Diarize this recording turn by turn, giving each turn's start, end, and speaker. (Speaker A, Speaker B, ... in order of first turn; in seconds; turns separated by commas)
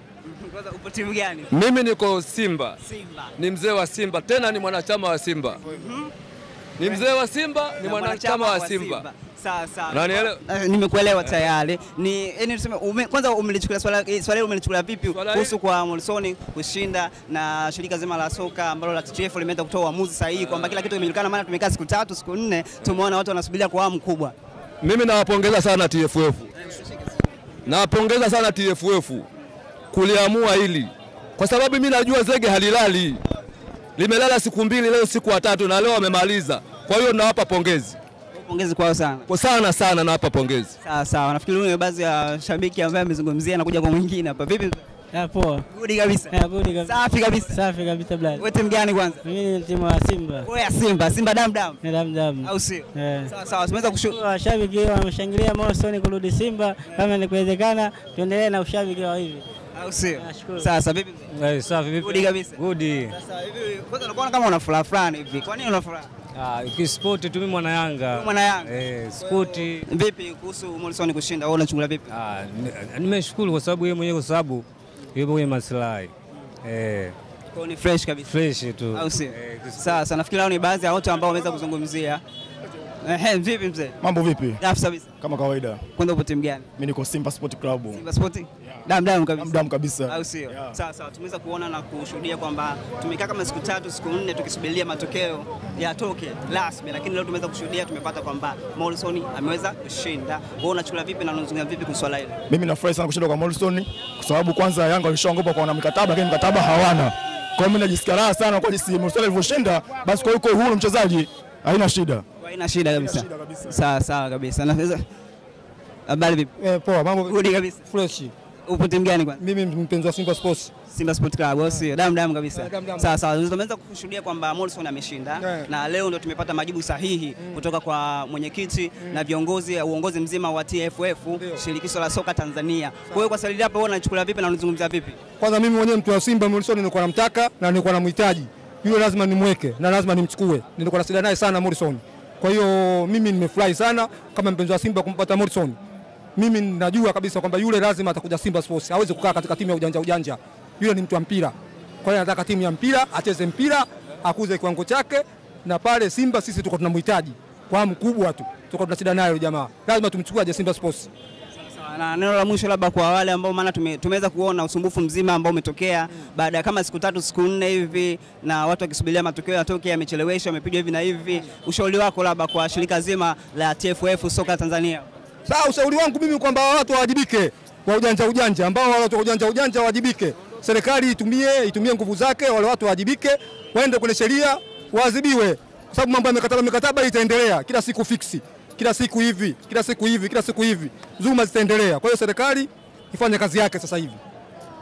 Speaker A: 0.2-1.5, Speaker B: 1.5-2.8, Speaker A: 2.8-3.3, Speaker B: 3.4-5.6, Speaker A: 5.6-6.1, Speaker B: 6.8-9.1, Speaker A: 7.8-24.3, Speaker B: 9.9-10.4, Speaker B: 15.1-15.5, Speaker B: 24.8-26.5, Speaker A: 26.6-27.0, Speaker B: 27.7-29.3, Speaker B: 29.9-33.2, Speaker B: 34.0-38.0, Speaker A: 38.3-39.3, Speaker B: 39.3-40.7, Speaker A: 40.8-44.8, Speaker C: 45.1-45.7, Speaker A: 45.7-47.6, Speaker C: 46.3-48.5, Speaker A: 48.4-49.2, Speaker C: 49.2-50.5, Speaker A: 50.4-51.8, Speaker C: 51.8-53.3, Speaker A: 52.4-54.2, Speaker C: 54.0-59.5, Speaker A: 59.8-61.3, Speaker C: 60.2-60.7, Speaker D: 61.3-63.1, Speaker A: 62.0-66.1, Speaker D: 66.3-69.8, Speaker A: 68.1-72.1, Speaker D: 72.1-76.1, Speaker D: 76.6-77.2, Speaker A: 77.5-78.3, Speaker D: 78.2-80.0, Speaker A: 78.9-82.2, Speaker A: 83.0-84.0, Speaker E: 84.0-84.6, Speaker A: 84.6-85.1, Speaker E: 85.2-85.8, Speaker A: 86.0-86.7, Speaker E: 86.8-88.0, Speaker A: 87.9-102.4, Speaker E: 89.4-90.7, Speaker E: 102.5-112.2, Speaker A: 112.4-115.0, Speaker E: 113.0-113.8, Speaker A: 116.1-116.5, Speaker F: 116.6-117.4, Speaker A: 117.3-117.8, Speaker F: 117.9-118.3, Speaker A: 118.7-119.4, Speaker F: 119.4-120.7, Speaker A: 120.9-135.2, Speaker F: 122.5-123.1, Speaker F: 125.4-125.7, Speaker F: 131.4-131.6, Speaker F: 135.4-145.8, Speaker F: 146.4-161.1, Speaker A: 161.7-175.1, Speaker F: 175.5-194.2